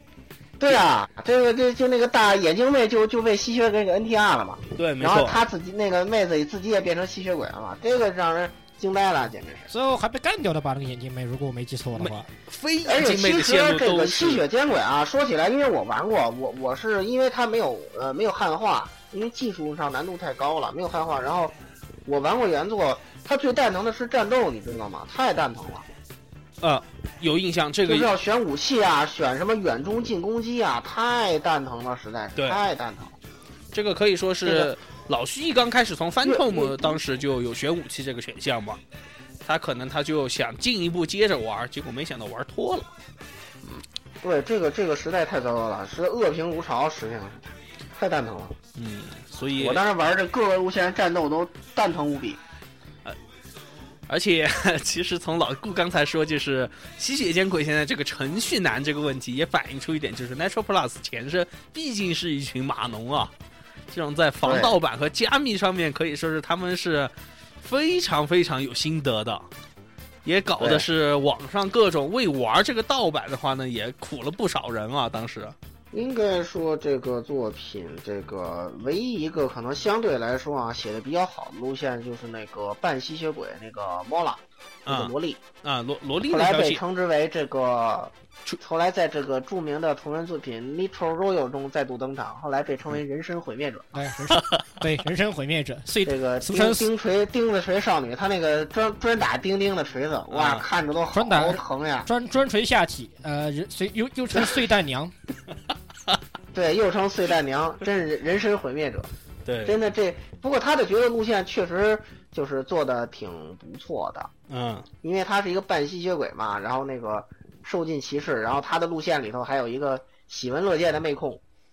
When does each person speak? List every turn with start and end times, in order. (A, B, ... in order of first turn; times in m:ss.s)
0:00.6-0:09.7 A
0:04.8-0:05.4 B
0:09.7-0:12.3 C
0:12.0-0:14.4 B
0:12.8-0:25.9 A
0:26.6-0:28.1 B
0:27.9-0:33.1 A
0:32.4-0:32.6 B
0:33.7-0:38.8 B
0:34.4-0:34.7 A
0:36.2-0:37.0 A
0:39.4-0:42.9 B
0:43.6-0:48.6 A
0:48.7-0:49.8 B
0:49.6-0:52.4 A
0:54.1-1:03.3 B
1:03.9-1:09.5 B
1:04.4-1:04.8 A
1:10.2-1:15.6 B
1:10.6-1:10.9 A
1:15.9-1:25.4 A
1:24.9-1:25.1 B
1:25.6-1:26.8 B
1:26.2-1:34.0 A
1:33.9-1:36.9 C
1:34.3-1:34.6 B
1:36.0-1:42.1 A
1:40.3-1:40.6 B
1:41.1-1:45.1 C
1:46.5-1:49.1 A
1:49.4-1:49.8 B
1:49.6-1:54.3 A
1:54.5-1:54.9 B
1:55.0-2:01.4 A